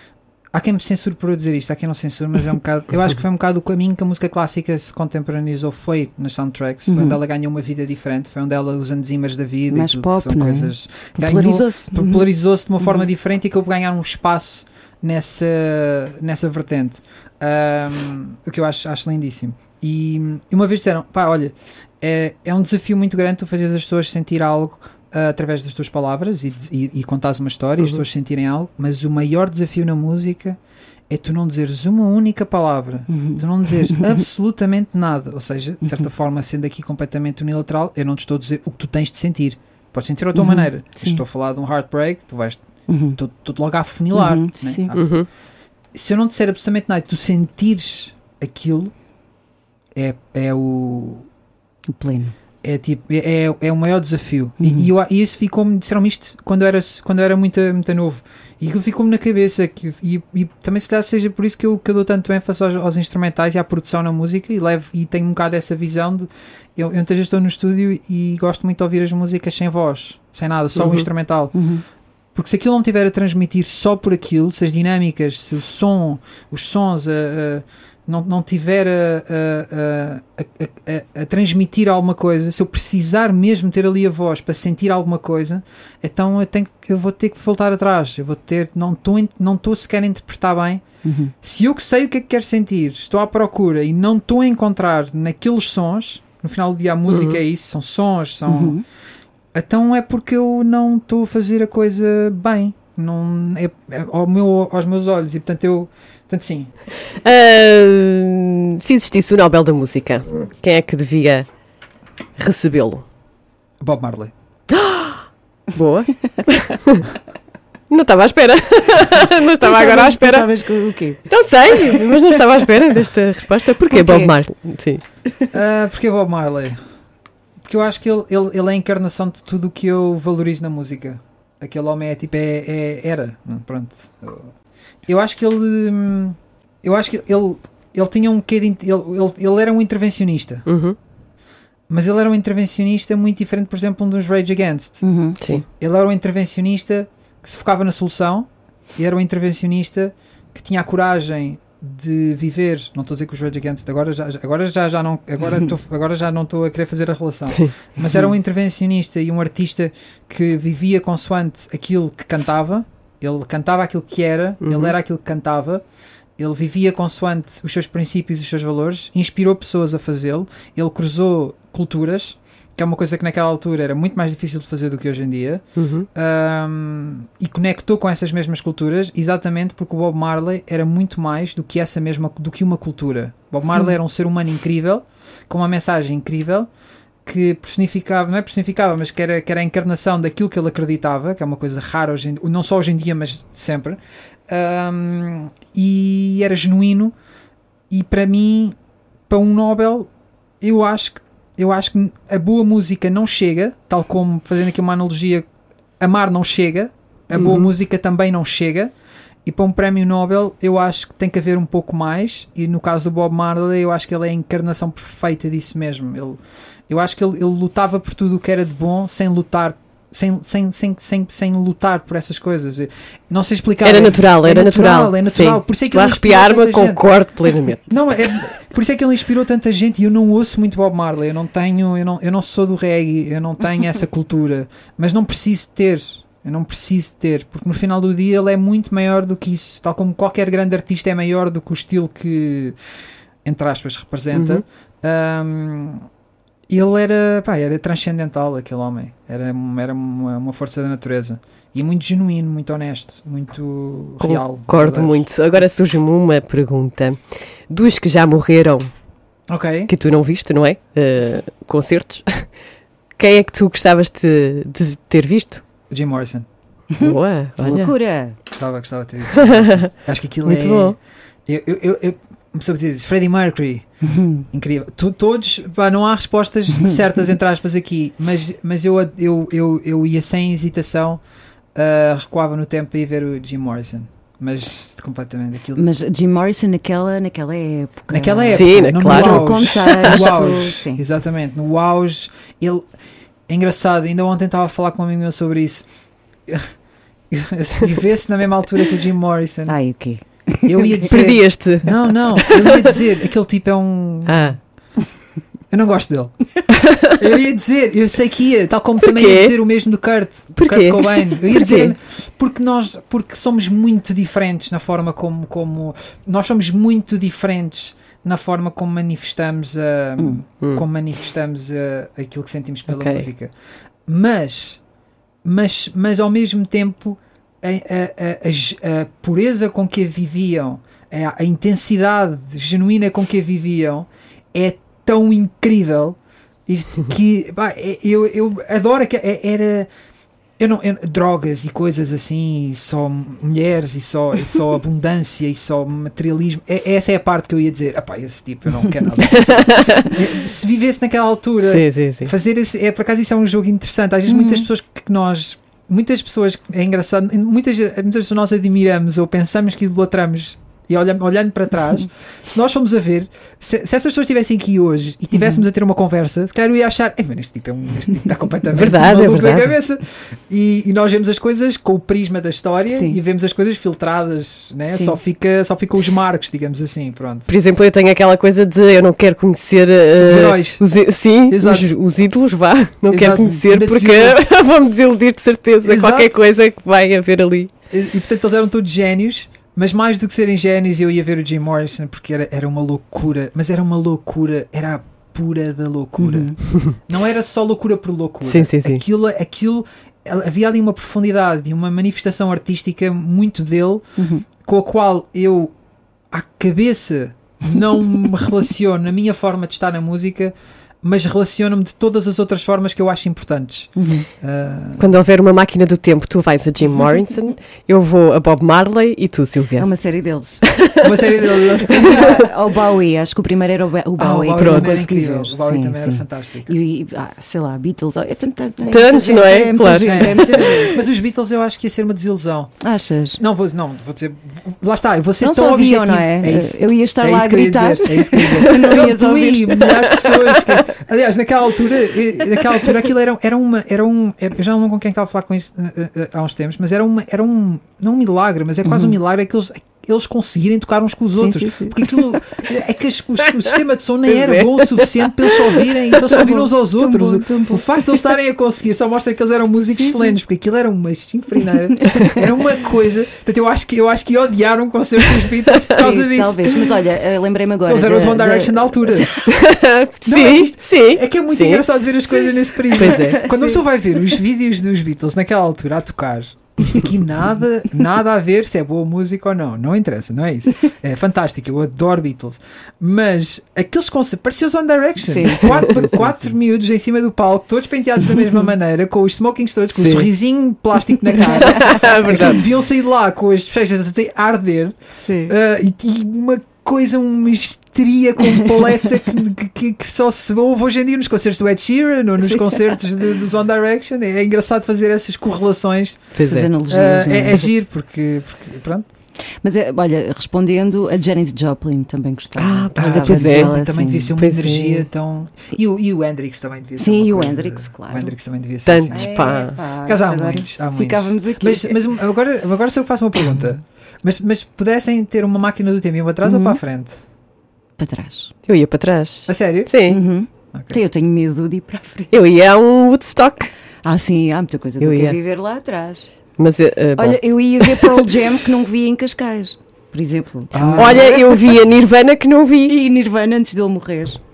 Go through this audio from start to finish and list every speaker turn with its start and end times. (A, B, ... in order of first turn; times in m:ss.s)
0:00.5-0:30.6 A
0:06.9-0:07.2 B
0:09.7-0:12.3 B
0:31.1-0:45.1 A
0:33.1-0:34.2 B
0:40.4-0:41.2 B
0:42.9-0:43.2 B
0:44.1-0:44.9 B
0:44.9-0:45.3 C
0:45.9-0:48.9 A
0:50.0-0:51.3 A
0:51.9-0:52.4 B
0:52.6-1:11.6 A
0:54.6-0:54.9 B
1:10.8-1:11.1 C
1:11.5-1:11.8 B
1:12.4-1:30.9 A
1:31.0-1:31.3 B
1:31.4-1:38.8 A
1:37.1-1:37.4 C
1:38.5-1:38.8 B
1:39.5-1:46.7 A
1:47.1-1:51.5 C
1:52.4-1:53.0 C
1:53.8-1:54.3 A
1:54.7-1:55.2 C
1:55.7-1:57.0 C
1:57.9-2:00.5 C
1:59.6-2:02.1 B
2:01.3-2:05.0 C
2:03.9-2:04.3 B
2:05.5-2:06.8 A
2:07.7-2:14.5 A
2:15.1-2:20.7 A
2:20.7-2:21.0 C
2:21.9-2:25.1 A
2:25.0-2:25.4 B
2:25.6-2:45.8 A
2:44.6-2:44.9 C
2:46.4-3:06.7 A
2:55.8-2:56.1 C
3:07.3-3:17.1 A
3:17.9-3:18.8 A
3:19.3-3:20.1 A
3:20.6-3:25.5 A
3:26.0-3:28.9 A
3:27.3-3:27.7 C
3:29.5-3:47.0 A
3:43.8-3:47.9 C
3:47.9-4:02.8 A
4:03.4-4:06.1 A
4:04.3-4:04.6 C
4:06.7-4:15.2 A
4:14.2-4:18.9 C
4:19.5-4:19.9 A
4:19.9-4:22.6 C
4:23.2-4:25.6 C
4:25.9-4:26.4 A
4:26.9-4:28.4 B
4:27.0-4:27.9 C
4:28.5-4:41.2 A
4:29.4-4:29.9 C
4:30.4-4:31.0 C
4:34.0-4:34.5 B
4:41.8-4:45.9 A
4:45.8-4:51.0 B
4:48.1-4:52.8 A
4:48.5-4:50.4 C
4:53.5-4:55.8 A
4:56.5-4:56.7 A
4:57.3-4:59.8 A
4:59.7-5:01.1 B
5:00.6-5:04.6 A
5:01.1-5:02.9 C
5:04.3-5:04.6 C
5:05.7-5:23.5 A
5:06.8-5:07.2 C
5:09.0-5:09.5 C
5:10.6-5:11.9 C
5:22.9-5:23.3 C
5:24.1-5:24.8 A
5:25.4-5:39.9 A
5:40.6-6:17.5 A
5:49.3-5:50.2 C
5:51.6-5:52.3 C
5:54.3-5:54.7 B
6:05.3-6:05.6 B
6:08.7-6:09.7 C
6:12.9-6:13.2 B
6:14.9-6:15.2 B
6:17.5-6:27.7 C
6:20.2-6:20.8 A
6:21.5-6:21.9 A
6:23.1-6:24.4 A
6:25.8-6:26.4 A
6:27.9-6:45.7 A
6:36.2-6:36.6 B
6:38.4-6:39.0 C
6:44.2-6:44.4 B
6:46.3-6:55.1 A
6:54.0-6:54.3 B
6:55.0-6:59.9 C
6:59.8-7:00.6 B
7:00.6-7:01.0 C
7:01.0-7:02.4 A
7:01.6-7:02.4 C
7:02.0-7:11.0 B
7:04.2-7:06.7 A
7:04.6-7:05.0 C
7:08.9-7:10.8 C
7:09.8-7:12.8 A
7:12.8-7:13.4 B
7:13.4-7:46.8 A
7:15.4-7:19.9 B
7:28.8-7:29.2 B
7:31.4-7:32.4 B
7:34.3-7:36.4 C
7:36.4-7:37.9 B
7:39.9-7:40.4 B
7:42.0-7:42.3 B
7:46.0-7:49.5 B
7:47.9-7:49.5 A
7:49.5-7:51.9 C
7:50.3-8:26.4 A
7:52.9-7:53.4 C
7:53.0-7:53.8 B
8:05.2-8:06.4 B
8:11.4-8:12.4 B
8:11.5-8:12.6 C
8:15.2-8:15.5 B
8:22.4-8:22.8 B
8:26.4-8:26.7 C
8:26.4-8:27.6 B
8:26.9-8:29.1 A
8:29.6-8:34.4 B
8:32.6-8:33.7 C
8:33.0-8:47.2 A
8:34.4-8:35.1 C
8:37.0-8:38.4 B
8:38.9-8:39.8 C
8:39.1-8:42.0 B
8:46.4-8:46.8 B
8:48.0-8:48.5 B
8:48.7-8:50.2 C
8:49.5-8:50.0 A
8:50.1-8:52.3 B
8:50.7-8:51.0 A
8:52.3-8:53.7 C
8:54.0-8:56.3 B
8:55.0-8:55.4 C
8:56.6-8:58.3 C
8:57.2-9:01.4 B
9:00.7-9:01.5 A
9:00.9-9:03.0 C
9:02.9-9:04.4 B